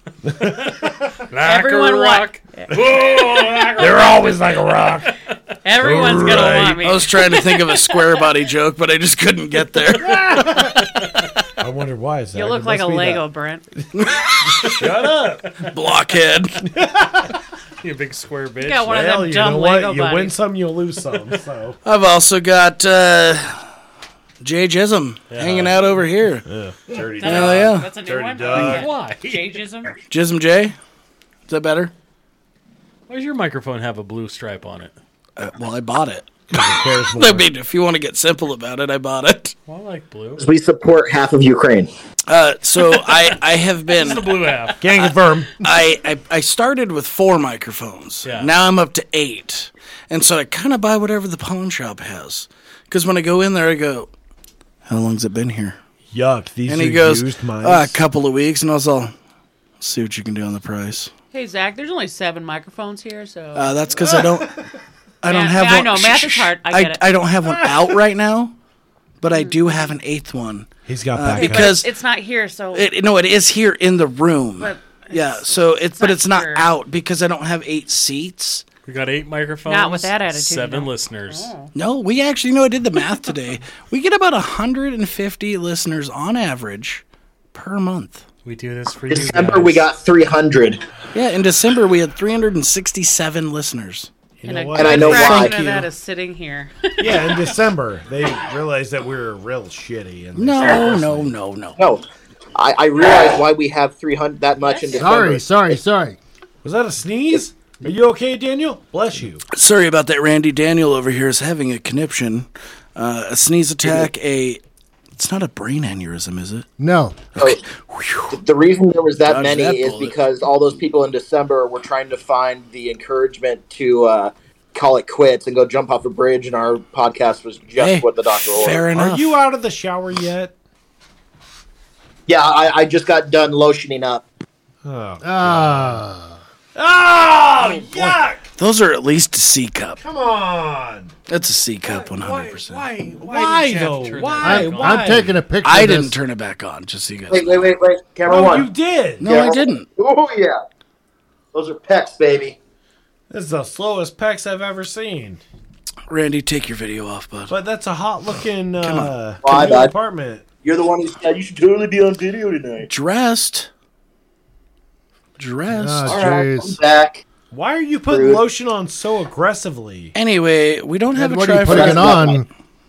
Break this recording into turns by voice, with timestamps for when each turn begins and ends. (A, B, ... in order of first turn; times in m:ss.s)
0:00.2-0:01.1 A
0:01.3-0:04.7 B
0:01.4-0:02.8 C
0:02.7-0:05.1 A
0:05.6-0:08.3 C
0:05.7-0:06.8 A
0:06.8-0:10.8 D
0:10.0-0:10.7 A
0:11.6-0:13.2 A
0:12.3-0:13.6 C
0:13.9-0:16.7 D
0:14.4-0:15.7 A
0:16.6-0:17.3 A
0:17.8-0:18.9 B
0:18.6-0:20.4 C
0:18.8-0:21.8 A
0:21.8-0:23.6 D
0:24.4-0:26.5 D
0:25.3-0:25.8 B
0:26.4-0:28.9 A
0:27.2-0:29.9 C
0:27.2-0:28.8 D
0:28.5-0:29.6 B
0:30.1-0:30.8 D
0:31.5-0:31.9 D
0:33.1-0:34.9 B
0:35.4-0:39.5 D
0:36.5-0:37.5 A
0:39.7-0:40.4 B
0:40.4-0:41.9 E
0:42.3-0:54.1 D
0:44.0-0:44.8 B
0:44.8-0:45.6 A
0:48.2-0:48.5 B
0:54.8-0:55.8 D
0:56.1-0:58.0 A
0:56.7-0:59.1 D
0:59.8-1:01.1 D
1:01.3-1:03.8 C
1:03.5-1:04.6 D
1:04.0-1:04.5 A
1:05.2-1:08.5 D
1:05.2-1:07.0 C
1:07.4-1:08.0 A
1:09.2-1:11.9 D
1:09.3-1:09.9 C
1:10.8-1:11.8 A
1:11.3-1:12.9 C
1:12.7-1:18.6 D
1:14.6-1:16.7 C
1:18.8-1:21.5 B
1:19.6-1:21.7 C
1:21.7-1:27.0 D
1:27.5-1:28.2 D
1:28.4-1:29.8 B
1:29.1-1:30.8 E
1:31.1-1:34.1 D
1:34.4-1:35.4 A
1:34.4-1:37.5 C
1:34.8-1:35.5 E
1:34.9-1:35.9 D
1:37.0-1:41.3 A
1:40.3-1:41.8 D
1:41.8-1:45.8 E
1:44.7-1:45.2 C
1:45.0-1:46.2 F
1:46.6-1:49.4 A
1:49.5-1:54.6 D
1:53.8-1:54.1 E
1:55.2-1:56.7 D
1:56.8-1:57.2 F
1:57.4-1:58.4 D
1:58.3-2:08.9 E
1:59.2-2:00.2 D
2:07.8-2:09.4 D
2:08.9-2:10.5 A
2:12.3-2:14.2 E
2:14.8-2:16.0 A
2:15.2-2:16.4 F
2:16.7-2:18.5 A
2:17.9-2:20.0 D
2:20.0-2:21.1 A
2:21.3-2:22.9 D
2:21.8-2:25.2 B
2:23.2-2:25.4 A
2:24.4-2:26.2 F
2:25.6-2:27.7 D
2:27.3-2:28.7 E
2:28.3-2:29.3 A
2:29.2-2:29.9 D
2:29.2-2:30.6 E
2:31.5-2:32.6 E
2:33.3-2:35.4 A
2:36.1-2:37.5 D
2:37.5-2:40.4 A
2:38.8-2:39.1 D
2:39.4-2:39.9 E
2:40.6-2:42.9 E
2:42.9-2:43.7 D
2:45.4-2:46.2 D
2:45.7-2:46.8 F
2:46.0-2:47.2 E
2:47.5-2:50.1 A
2:48.1-2:48.4 E
2:50.1-2:52.4 D
2:51.1-2:52.5 F
2:51.6-2:52.4 E